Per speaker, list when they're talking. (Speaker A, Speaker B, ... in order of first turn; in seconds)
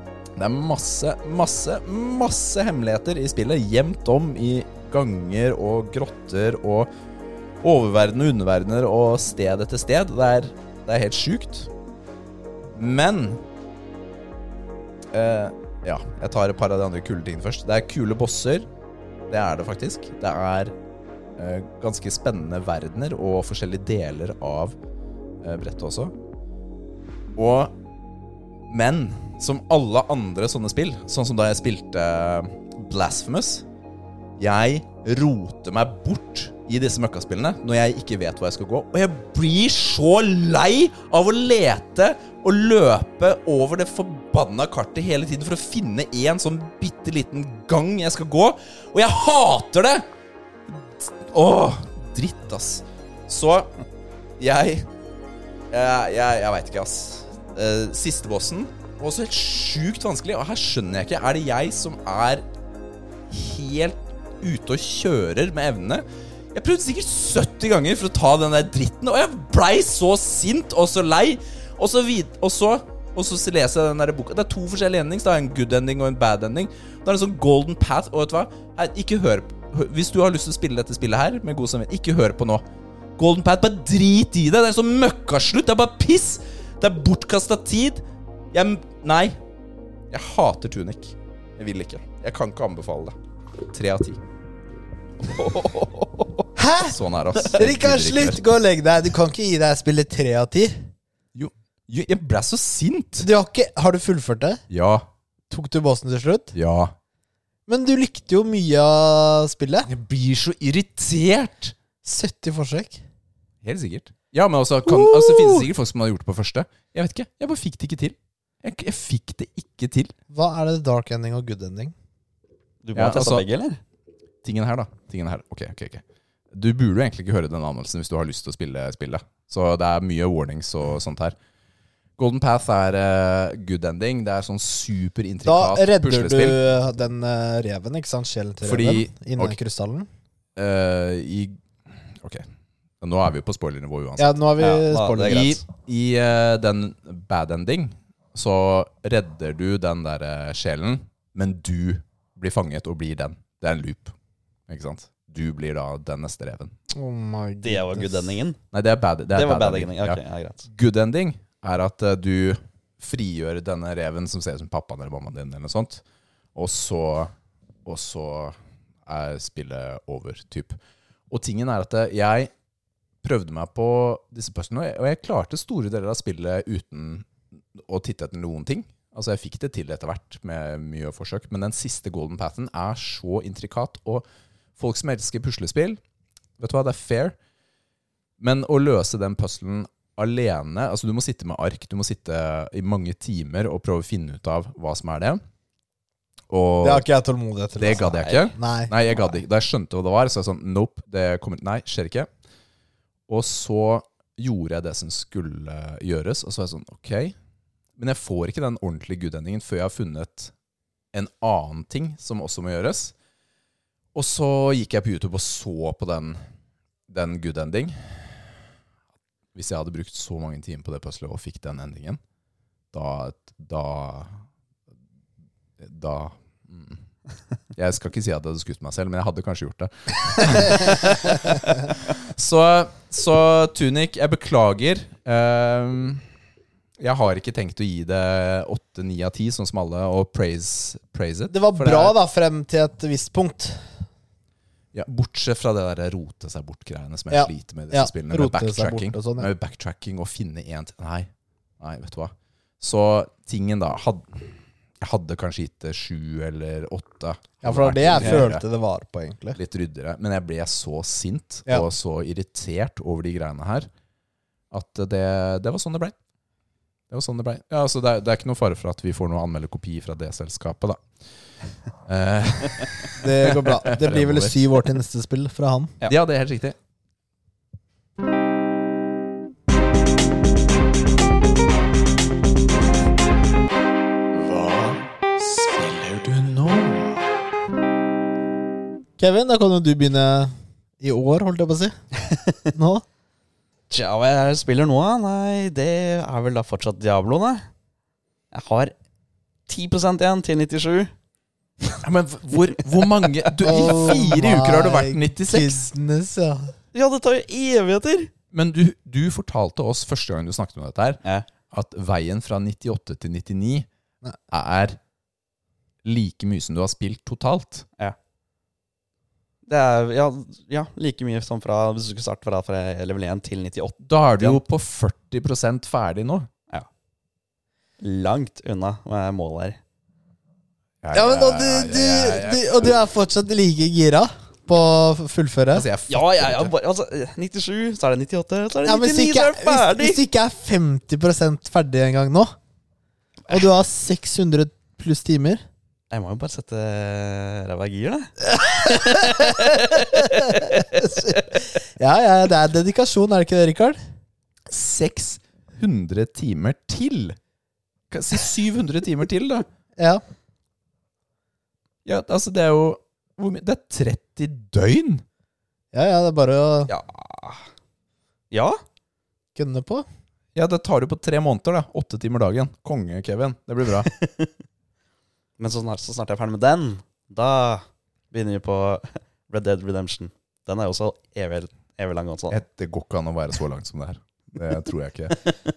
Speaker A: 0.4-6.9, 7.6-11.7, 12.7-13.4, 15.1-18.7, 19.3-20.7, 21.4-24.8, 25.4-26.1, 27.3-27.7, 28.7-33.6, 34.4-50.0, 50.7-53.7, 54.4-54.9, 55.7-62.4, 63.3-82.6, 83.2-89.4, 90.1-93.2, 93.7-94.2, 96.8-98.4, 101.3-103.3, 104.7-105.1, 106.5-106.9, 109.9-111.7, 113.6-120.1, 122.9-123.4, 124.4-131.3, 132.2-136.6, 138.6-139.6, 140.6-142.4, 143.0-144.3, 145.2-154.1, 154.7-156.7, 158.7-166.0, 166.5-167.3, 167.8-170.8, 171.3-172.5, 173.2-184.2, 184.8-186.0, 186.6-187.3, 188.4-195.4, 196.5-197.1, 197.8-202.3, 203.3-207.3, 208.0-210.5, 211.1-213.1, 214.1-216.4, 217.1-218.5, 219.5-222.2, 222.9-224.4, 225.8-227.0, 227.7-236.2, 237.0-242.2, 244.9-258.6, 259.5-263.9, 264.7-266.1, 267.1-271.0, 272.1-274.6, 276.0-276.8, 284.3-287.3, 302.0-305.9, 308.5-313.9, 314.5-315.0, 316.0-317.9, 324.0-326.5, 331.0-332.9, 335.7-336.7, 354.7-357.4, 358.1-359.7, 362.0-365.2, 370.5-374.1, 382.5-385.4
Speaker B: 95.3-96.3, 122.8-123.8, 144.6-145.6, 157.6-158.6, 159.3-160.7, 198.1-198.4, 258.2-258.4, 292.3-292.6, 293.9-297.7, 298.5-298.9, 299.7-301.1, 303.4-304.0, 306.9-308.3, 319.7-324.6, 328.0-329.8, 336.1-340.2, 346.1-350.9, 366.9-367.6, 368.5-368.8, 374.0-374.5, 375.6-382.6
Speaker C: 96.5-100.8, 103.2-104.6, 105.5-106.5, 107.7-109.9, 112.0-113.0, 114.9-115.6, 120.3-121.9, 135.4-140.1, 144.2-145.5, 156.9-158.3, 196.8-198.9, 241.5-243.8, 247.3-249.5, 257.6-259.6, 273.2-275.9, 289.2-291.9, 292.7-293.0, 303.6-306.7, 331.1-335.9, 338.8-342.5, 343.5-345.6, 348.6-354.0, 360.0-360.2, 365.9-366.9, 369.5-370.1